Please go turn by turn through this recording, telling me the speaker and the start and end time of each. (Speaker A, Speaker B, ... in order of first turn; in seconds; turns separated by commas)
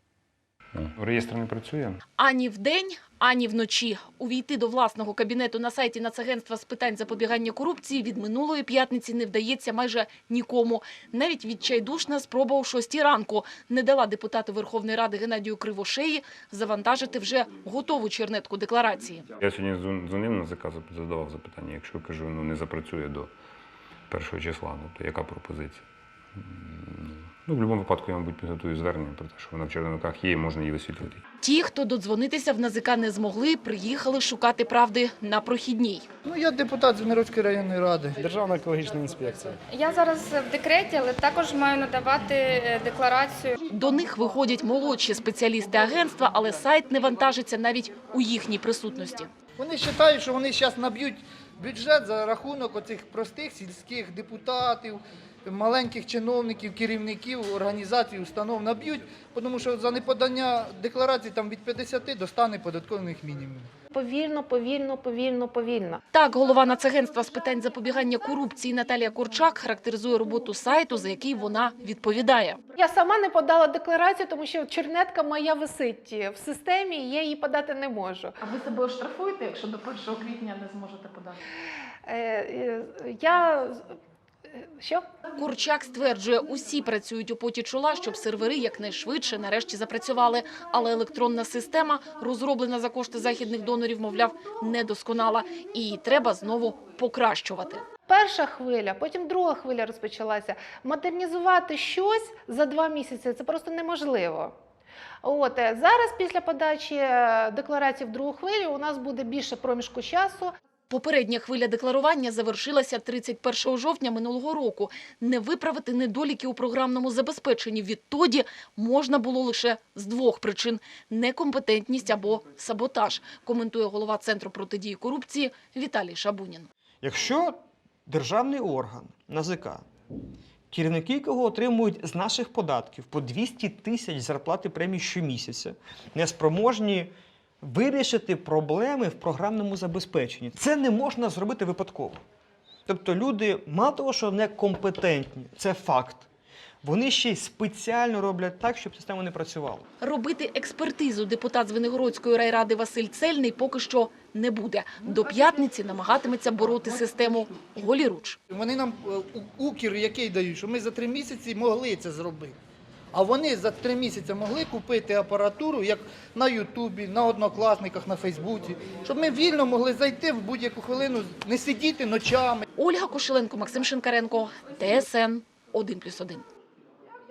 Speaker A: 0.7-2.0, Speaker B: 2.2-19.3, Speaker A: 19.4-23.3, Speaker A: 24.1-25.8, Speaker A: 26.4-31.2, Speaker B: 31.4-36.0, Speaker C: 36.2-38.2, Speaker A: 38.5-39.3, Speaker D: 39.7-43.6, Speaker B: 43.7-49.3, Speaker C: 49.6-63.7, Speaker E: 63.9-66.0, Speaker B: 66.1-72.6, Speaker E: 72.8-78.3, Speaker F: 78.5-81.2, Speaker E: 82.1-83.9, Speaker E: 84.5-85.0, Speaker B: 85.4-97.9, Speaker E: 98.1-104.5, Speaker E: 105.2-110.5, Speaker B: 110.9-126.7, Speaker G: 127.0-129.9, Speaker G: 130.7-142.2, Speaker G: 142.9-146.3, Speaker G: 146.8-149.8, Speaker B: 150.0-158.4, Speaker C: 158.5-162.6, Speaker C: 163.1-172.7, Speaker B: 172.8-176.4